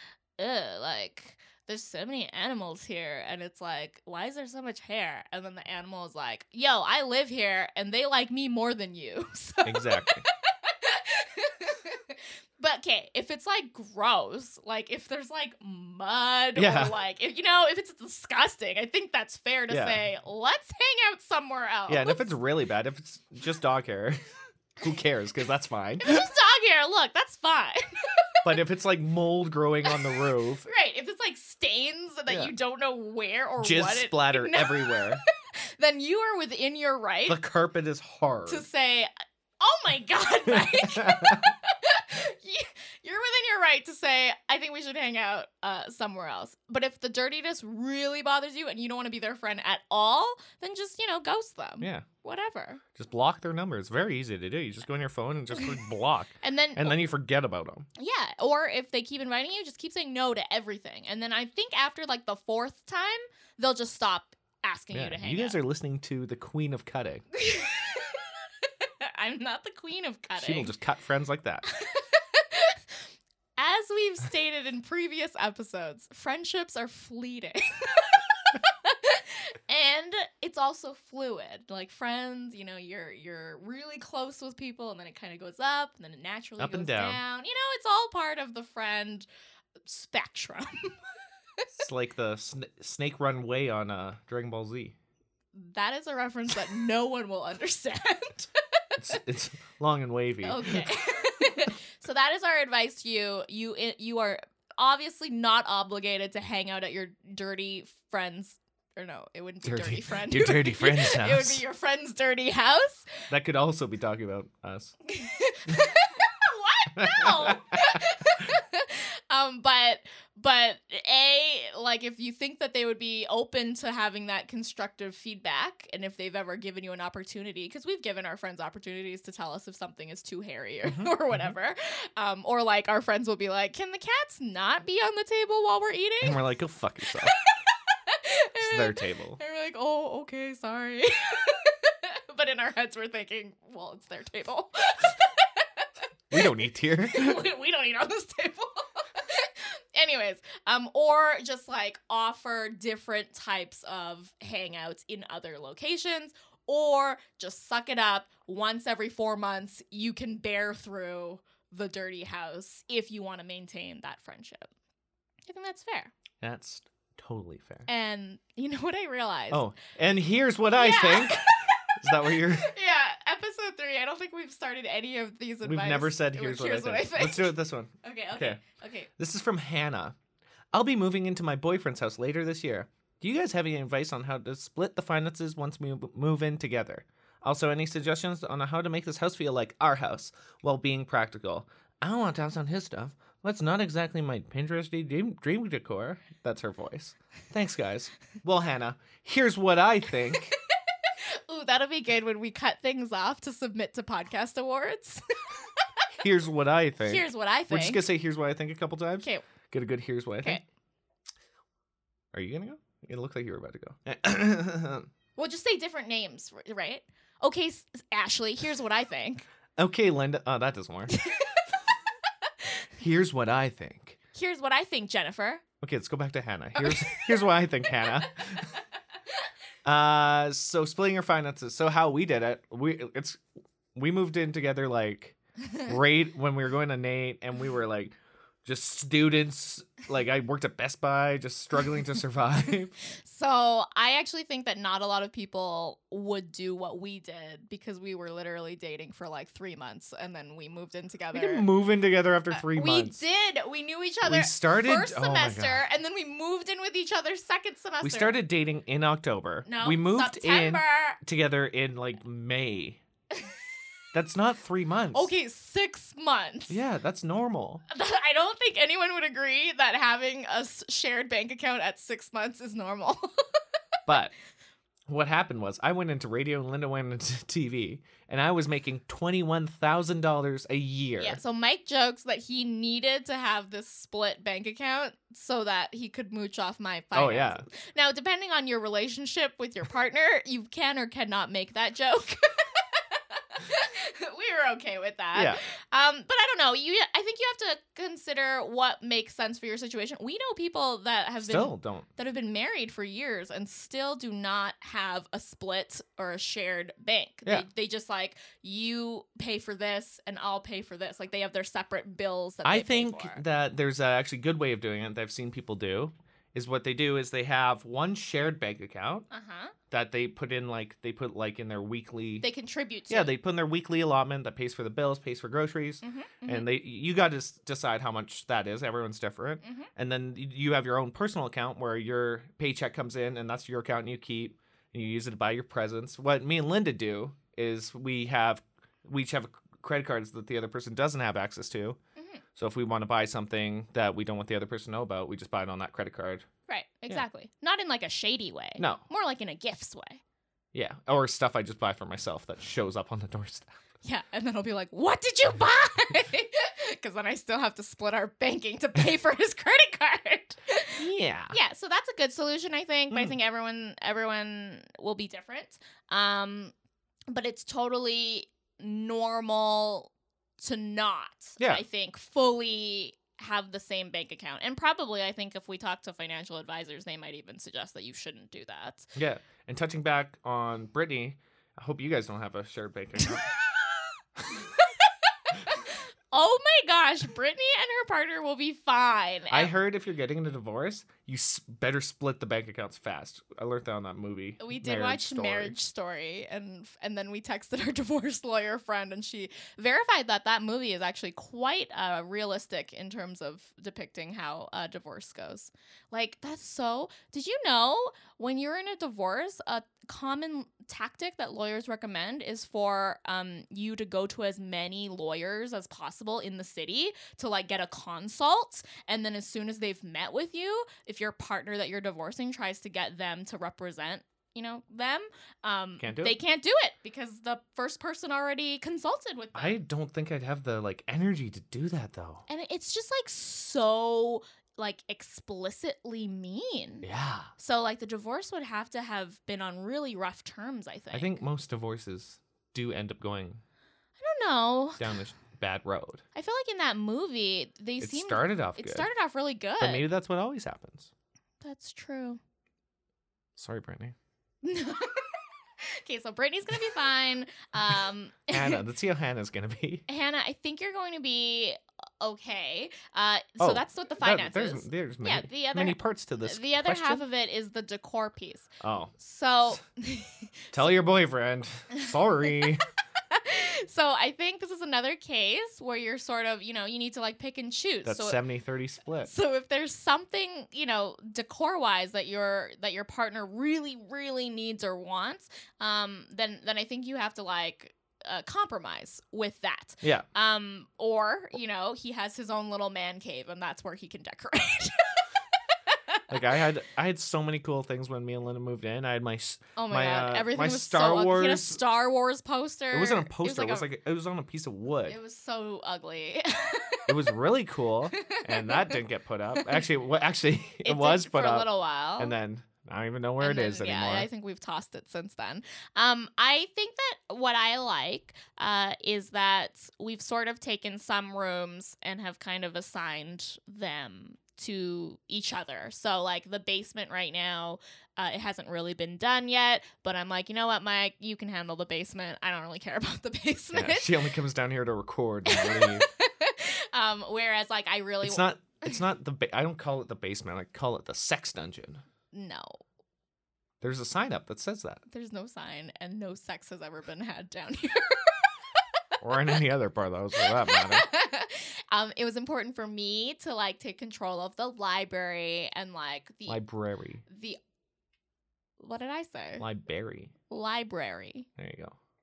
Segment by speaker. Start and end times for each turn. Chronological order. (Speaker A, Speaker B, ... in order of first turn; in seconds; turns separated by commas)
Speaker A: 0.4-22.3, Speaker B: 9.7-10.2, Speaker B: 16.6-16.9, Speaker B: 19.7-20.0, Speaker B: 21.9-24.2, Speaker B: 24.8-26.2, Speaker A: 26.0-28.3, Speaker B: 28.4-30.7, Speaker A: 29.9-35.2, Speaker B: 33.6-35.2, Speaker A: 35.8-37.4, Speaker B: 37.3-38.7, Speaker A: 38.5-39.1, Speaker A: 39.6-52.8, Speaker B: 40.5-41.5, Speaker B: 51.8-52.1, Speaker B: 53.0-57.9, Speaker A: 56.4-57.0, Speaker A: 58.0-65.6, Speaker B: 64.9-67.2, Speaker A: 67.3-70.7, Speaker B: 70.4-71.7, Speaker A: 71.7-72.8, Speaker A: 73.6-89.3, Speaker B: 86.6-87.2, Speaker A: 89.9-90.9, Speaker B: 91.8-95.0, Speaker A: 95.5-98.8, Speaker B: 99.0-100.9, Speaker A: 100.4-113.3, Speaker B: 109.6-111.6, Speaker B: 113.3-115.0, Speaker A: 115.1-136.4, Speaker B: 116.9-118.0, Speaker B: 130.8-131.5, Speaker B: 136.2-137.3, Speaker A: 137.1-145.9, Speaker B: 138.6-139.4, Speaker B: 146.3-147.4, Speaker A: 147.1-164.7, Speaker A: 165.5-166.1, Speaker B: 166.4-167.9, Speaker A: 167.9-169.7, Speaker B: 169.5-172.7, Speaker A: 170.7-179.1, Speaker B: 175.6-178.6, Speaker B: 179.2-180.2, Speaker B: 180.7-200.6, Speaker A: 201.0-205.2, Speaker B: 206.2-210.6, Speaker A: 207.0-208.0, Speaker B: 212.3-215.1, Speaker A: 215.4-219.5, Speaker B: 219.8-221.1, Speaker A: 221.1-221.8, Speaker B: 223.0-224.2, Speaker A: 224.3-225.6, Speaker B: 225.8-228.7, Speaker A: 226.8-227.5, Speaker B: 229.8-233.4, Speaker B: 233.9-242.9, Speaker A: 243.2-251.7, Speaker B: 251.3-253.2, Speaker A: 252.5-258.4, Speaker B: 254.2-255.8, Speaker B: 258.0-263.0, Speaker A: 259.6-261.2, Speaker B: 264.1-265.3, Speaker A: 265.1-266.8, Speaker B: 266.7-267.8, Speaker A: 267.9-273.5, Speaker B: 274.1-274.3, Speaker B: 275.1-281.4, Speaker A: 281.2-313.4, Speaker B: 287.1-287.6, Speaker B: 295.3-295.6, Speaker B: 301.4-302.1, Speaker B: 312.6-319.3, Speaker A: 319.3-319.8, Speaker B: 319.9-322.5, Speaker A: 322.4-323.3, Speaker B: 323.1-342.0, Speaker A: 326.0-326.7, Speaker A: 329.6-329.9, Speaker A: 342.2-342.4, Speaker B: 342.6-346.5, Speaker A: 346.7-350.2, Speaker B: 348.8-349.0, Speaker B: 350.7-353.7, Speaker A: 354.0-366.7, Speaker B: 361.0-361.6, Speaker A: 367.3-379.1, Speaker B: 371.6-371.8, Speaker B: 379.2-383.5, Speaker A: 383.7-384.0, Speaker A: 384.8-389.7, Speaker B: 389.5-395.7, Speaker A: 394.6-429.8, Speaker B: 426.0-426.4, Speaker B: 429.6-432.4, Speaker A: 432.5-441.4, Speaker B: 437.0-437.5, Speaker B: 441.1-443.6, Speaker A: 444.2-445.1, Speaker B: 445.0-446.2, Speaker A: 446.4-450.1, Speaker B: 448.0-449.1, Speaker B: 449.8-451.1, Speaker A: 451.6-452.4, Speaker B: 453.6-454.1, Speaker A: 454.6-455.4, Speaker A: 456.0-458.8, Speaker B: 457.8-460.1, Speaker A: 460.1-471.0, Speaker B: 463.6-467.2, Speaker B: 468.8-469.1, Speaker B: 470.7-472.8, Speaker A: 471.9-472.7, Speaker A: 473.3-478.4, Speaker B: 478.1-479.3, Speaker A: 479.2-496.2, Speaker B: 496.3-501.8, Speaker A: 499.8-503.9, Speaker B: 502.9-505.2, Speaker A: 505.1-507.3, Speaker B: 507.1-514.3, Speaker A: 508.1-509.0, Speaker A: 509.5-509.9, Speaker A: 510.9-512.4, Speaker A: 513.4-534.3, Speaker B: 533.7-536.1, Speaker A: 535.5-539.0, Speaker B: 538.2-542.0, Speaker A: 542.3-542.8, Speaker B: 543.8-545.0, Speaker A: 545.1-548.8, Speaker B: 549.2-551.1, Speaker A: 550.4-556.6, Speaker B: 556.5-557.2, Speaker A: 557.3-557.6, Speaker A: 558.8-559.6, Speaker B: 559.6-560.3, Speaker A: 560.5-561.5, Speaker B: 561.6-562.0